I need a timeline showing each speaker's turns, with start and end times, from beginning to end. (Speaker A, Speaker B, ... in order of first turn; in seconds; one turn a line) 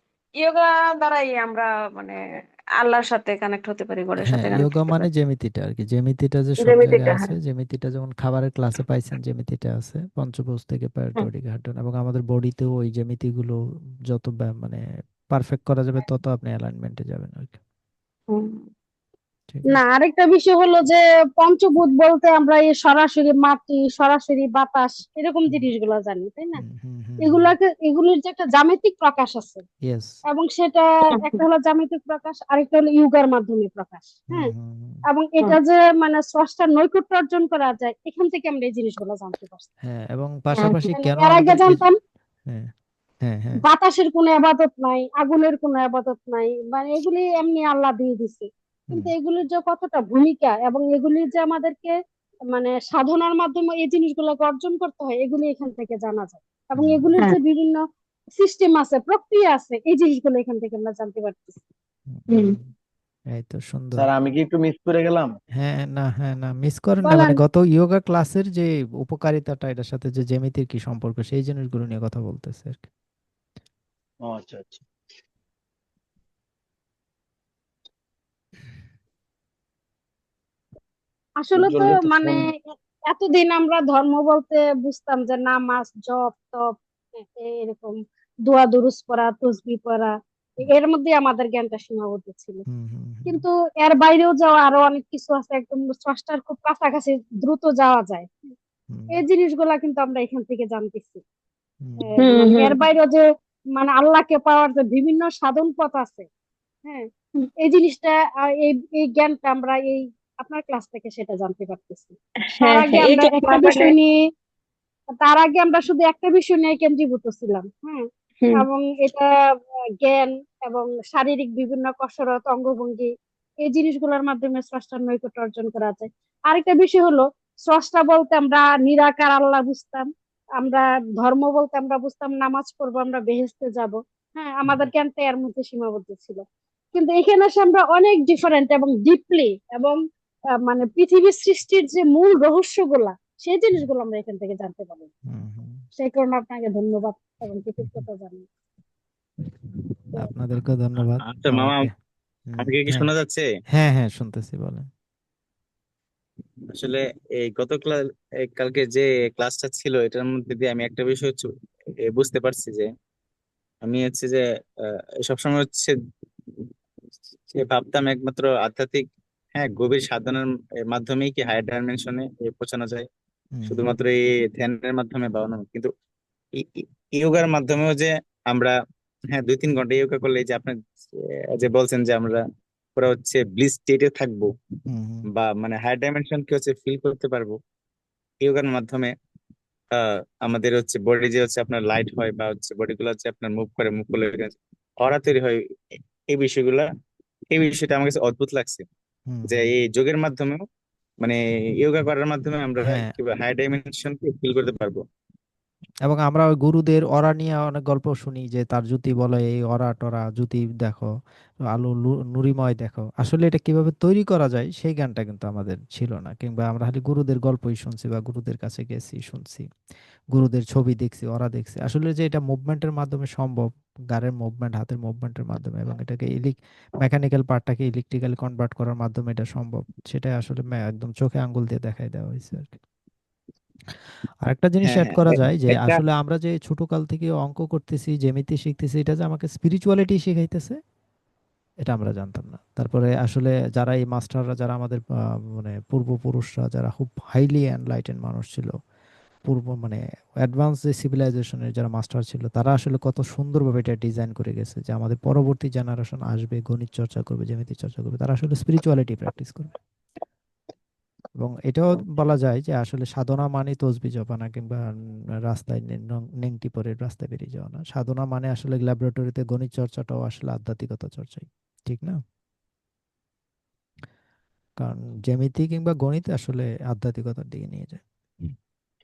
Speaker A: 0.4-2.2
Speaker A: 2.8-5.0
Speaker B: 4.2-13.6
Speaker A: 6.6-7.3
Speaker B: 14.1-17.6
Speaker A: 18.3-18.6
Speaker B: 19.5-19.8
Speaker C: 19.7-26.6
Speaker B: 26.6-27.5
Speaker C: 27.2-29.6
Speaker B: 29.9-30.1
Speaker C: 30.3-34.5
Speaker A: 31.1-31.4
Speaker B: 34.3-35.0
Speaker C: 35.1-39.7
Speaker B: 39.8-41.8
Speaker A: 40.6-40.9
Speaker C: 41.0-42.0
Speaker B: 43.2-43.6
Speaker C: 43.6-51.9
Speaker C: 52.5-57.8
Speaker B: 56.8-57.0
Speaker C: 58.3-61.6
Speaker B: 62.1-62.7
Speaker A: 62.3-62.6
Speaker B: 63.3-64.1
Speaker D: 64.0-65.3
Speaker B: 65.6-72.8
Speaker D: 74.2-74.8
Speaker C: 81.4-92.6
Speaker D: 81.5-82.4
Speaker B: 92.7-93.4
Speaker C: 93.2-98.5
Speaker B: 98.9-99.2
Speaker C: 99.1-101.2
Speaker B: 101.8-102.1
Speaker C: 102.1-103.2
Speaker A: 102.2-102.8
Speaker C: 103.8-106.3
Speaker C: 107.6-114.1
Speaker A: 112.5-113.9
Speaker C: 115.2-118.0
Speaker C: 118.5-119.3
Speaker C: 120.0-123.1
Speaker C: 123.6-130.1
Speaker C: 130.6-136.4
Speaker B: 134.7-134.9
Speaker C: 136.9-140.0
Speaker C: 140.7-145.1
Speaker B: 145.3-145.8
Speaker C: 145.9-148.4
Speaker B: 150.2-151.9
Speaker E: 151.2-151.9
Speaker B: 152.5-153.1
Speaker E: 152.6-153.4
Speaker B: 153.7-154.9
Speaker E: 156.7-161.5
Speaker E: 162.0-162.9
Speaker E: 163.8-164.4
Speaker E: 165.2-165.9
Speaker E: 167.5-173.1
Speaker B: 173.6-173.9
Speaker E: 173.7-175.9
Speaker E: 176.6-178.7
Speaker E: 179.3-180.8
Speaker E: 181.5-182.4
Speaker E: 182.9-184.5
Speaker B: 184.9-185.3
Speaker E: 185.3-187.6
Speaker E: 188.4-189.1
Speaker E: 189.9-195.6
Speaker E: 196.3-196.8
Speaker E: 197.5-198.8
Speaker B: 199.3-199.7
Speaker E: 199.5-200.6
Speaker E: 201.2-205.0
Speaker B: 202.8-203.1
Speaker B: 206.1-211.1
Speaker B: 211.6-219.7
Speaker B: 220.3-232.8
Speaker B: 234.4-240.8
Speaker E: 234.8-236.0
Speaker B: 241.8-245.0
Speaker B: 245.5-248.7
Speaker B: 249.4-259.7
Speaker B: 261.4-264.8
Speaker B: 265.5-272.2
Speaker B: 274.8-278.0